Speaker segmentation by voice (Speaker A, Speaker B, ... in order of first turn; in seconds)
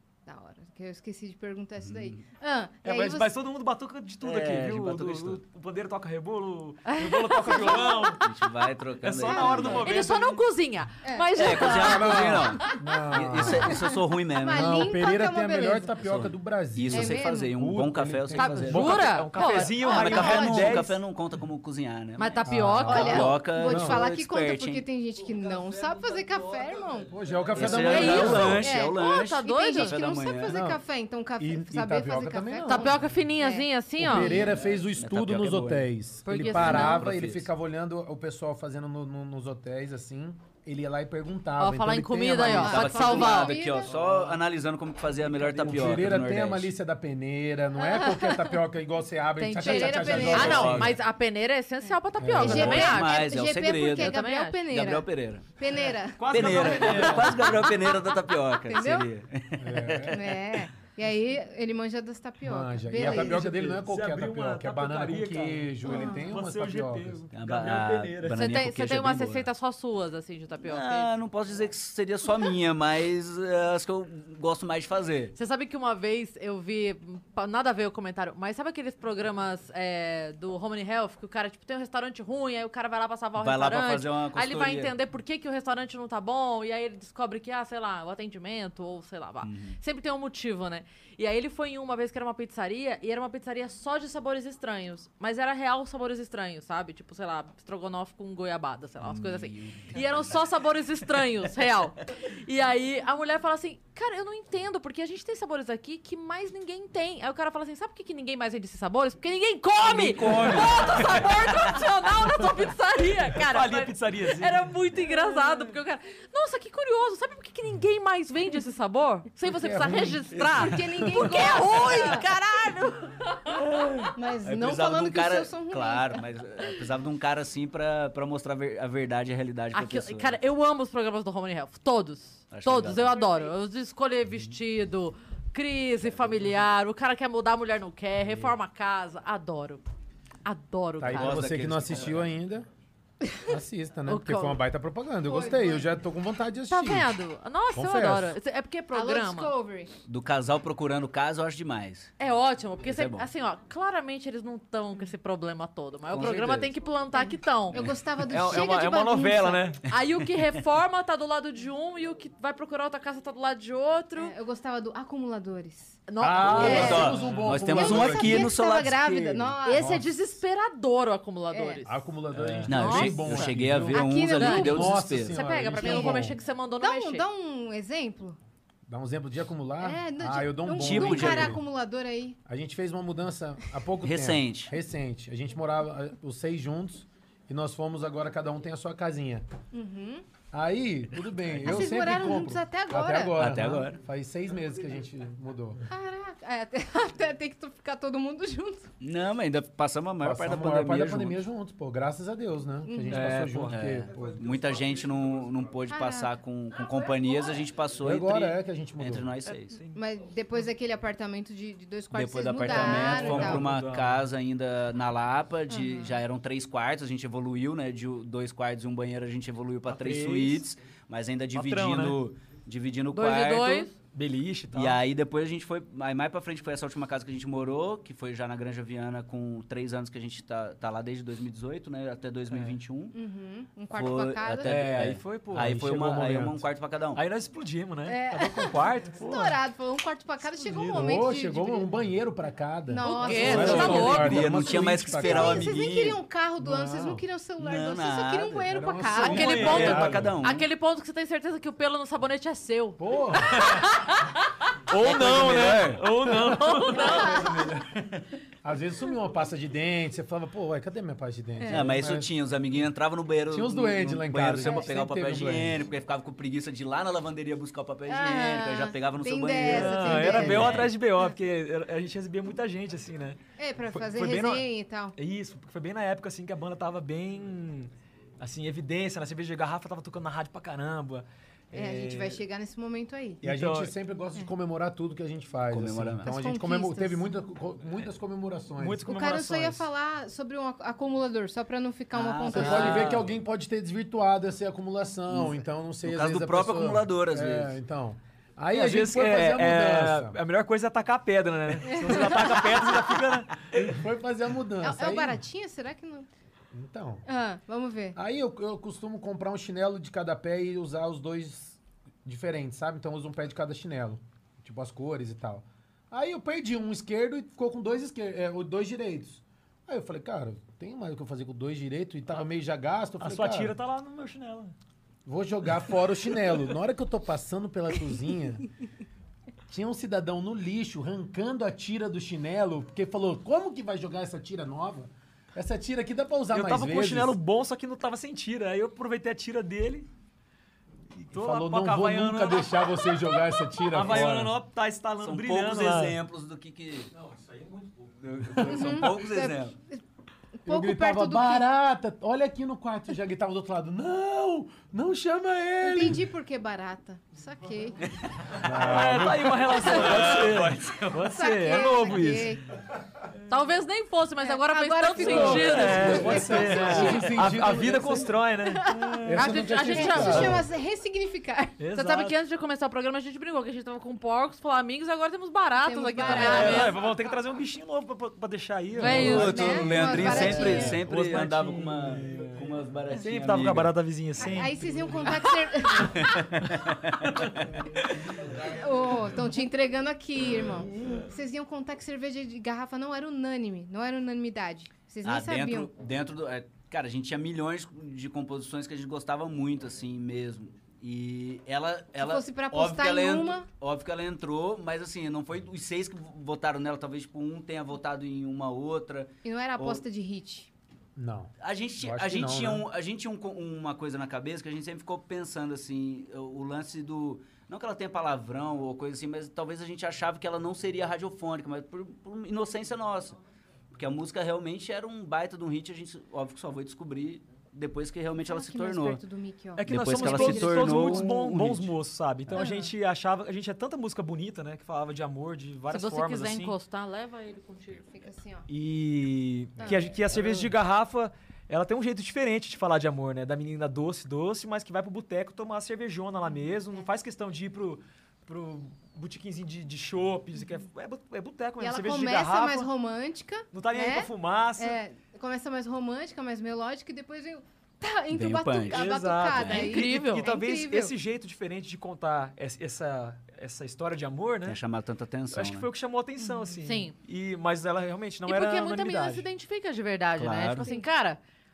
Speaker A: 0.3-3.4, 7.4-8.2, 9.2-9.9, 11.0-11.3, 14.4-16.0, 16.9-17.5, 19.4-20.9, 22.9-27.1, 27.9-34.6, 42.5-43.9, 47.8-48.6, 49.6-50.8, 51.8-57.7, 58.7-59.1, 60.1-63.5, 65.8-66.3, 120.6-122.3, 124.2-126.2, 145.2-145.9, 148.9-149.9, 157.1-159.7, 164.2-166.1, 166.6-170.0, 171.5-171.8, 173.9-175.0, 175.8-176.2, 176.8-178.4, 179.8-182.4, 189.7-190.3, 191.6-193.4, 195.9-198.9, 202.8-203.4, 205.9-207.6, 209.9-213.7, 215.7-216.2, 233.1-234.7, 238.1-241.9, 242.9-244.3, 245.2-249.8, 257.0-257.6, 261.6-262.0, 268.1-271.3, 273.6-275.2, 281.7-283.5, 286.2-287.3, 289.1-293.2, 301.8-303.1, 304.8-306.3, 307.3-308.2, 348.6-350.0, 350.6-351.7, 355.8-358.0, 361.3-362.6, 364.4-367.3, 368.6-371.8, 375.8-377.1, 379.1-381.0, 384.4-386.4, 388.6-395.9, 402.2-403.7, 409.4-410.7, 428.4-431.3, 432.6-432.9, 438.1-438.7, 439.8-440.1, 451.8-461.1, 466.4-466.7
Speaker B: 1.8-2.2, 4.2-5.4, 8.2-10.0, 11.3-14.8, 16.0-19.0, 19.7-24.9, 27.5-30.6, 34.3-35.9, 36.4-37.5, 42.5-46.7, 50.1-50.9, 52.5-55.5, 56.3-60.6, 67.3-69.5, 70.6-75.3, 83.4-84.9, 89.4-89.8, 99.0-100.4, 109.8-111.8, 123.7-130.4, 132.5-133.3, 141.1-142.3, 150.1-152.1, 152.8-153.3, 156.1-156.7, 157.7-158.0, 160.2-160.6, 166.4-169.6, 172.4-175.4, 180.8-181.6, 184.0-184.7, 193.3-194.0, 199.0-201.4, 203.7-209.8, 212.1-223.9, 224.7-233.2, 233.9-237.2, 243.5-246.2, 247.6-248.7, 249.4-250.7, 254.9-256.3, 256.9-258.2, 261.7-270.9, 285.7-286.4, 292.1-293.4, 295.3-297.8, 345.2-347.1, 348.2-349.8, 358.1-358.4, 359.9-361.3, 379.0-384.0, 386.1-387.7, 395.2-410.0, 411.6-423.4, 423.9-429.2, 429.9-431.9, 458.3-459.9, 464.7-465.9, 470.4-470.9
Speaker C: 2.8-8.2, 9.0-10.4, 18.8-21.0, 43.9-44.4, 45.2-46.1, 56.2-57.6, 63.3-68.5, 113.3-114.7, 158.2-159.8, 172.4-172.7, 203.1-203.8, 209.4-210.0, 212.7-214.2, 219.9-220.7, 221.5-222.2, 224.0-225.0, 232.5-232.8, 234.6-236.1, 237.2-239.4, 249.2-250.2, 254.9-257.3, 269.6-282.4, 283.4-283.9, 288.8-289.9, 298.7-303.7, 323.2-324.8, 336.5-340.1, 341.2-343.2, 343.9-346.2, 358.6-362.6, 365.2-369.5, 371.8-372.4, 376.2-388.1, 429.8-436.8, 438.7-452.9, 453.7-455.0, 458.9-464.8, 465.5-469.5
Speaker D: 6.9-8.1, 9.7-12.6, 18.4-19.8, 22.2-23.4, 27.9-30.0, 32.7-34.4, 36.2-37.1, 41.6-43.6, 49.4-53.3, 53.9-54.6, 68.3-71.1, 75.3-123.6, 129.7-139.8, 140.4-141.4, 144.1-144.6, 146.7-149.5, 152.2-157.8, 159.9-164.3, 166.1-167.1, 169.7-172.0, 172.7-173.5, 174.4-177.3, 223.1-223.9, 243.0-244.5, 249.2-254.3, 256.6-257.4, 363.5-366.3, 369.4-370.6, 371.9-376.9, 379.0-380.7, 435.9-438.1, 459.7-460.5, 466.8-467.1, 468.5-471.4
Speaker E: 11.6-13.9, 14.5-19.1, 22.4-24.1, 27.1-28.7, 30.4-30.8, 31.4-33.1, 34.0-42.9, 45.3-51.0, 52.2-52.9, 59.6-60.2, 62.4-67.3, 119.5-121.3, 141.0-142.7, 143.5-147.2, 147.7-148.4, 166.2-168.6, 171.9-176.4, 178.9-181.6, 182.5-189.4, 190.5-195.8, 200.2-204.7, 208.0-209.3, 235.5-236.6, 239.2-239.5, 240.6-245.8, 246.6-247.2, 248.6-250.4, 253.0-253.8, 256.4-256.7, 258.6-262.3, 263.5-265.9, 283.4-289.1, 292.5-300.4, 303.7-305.4, 306.7-307.2, 308.1-323.8, 325.3-328.7, 329.7-337.4, 341.3-344.6, 348.4-349.2, 350.7-356.2, 358.6-360.1, 365.2-368.3, 369.2-370.7, 411.2-412.9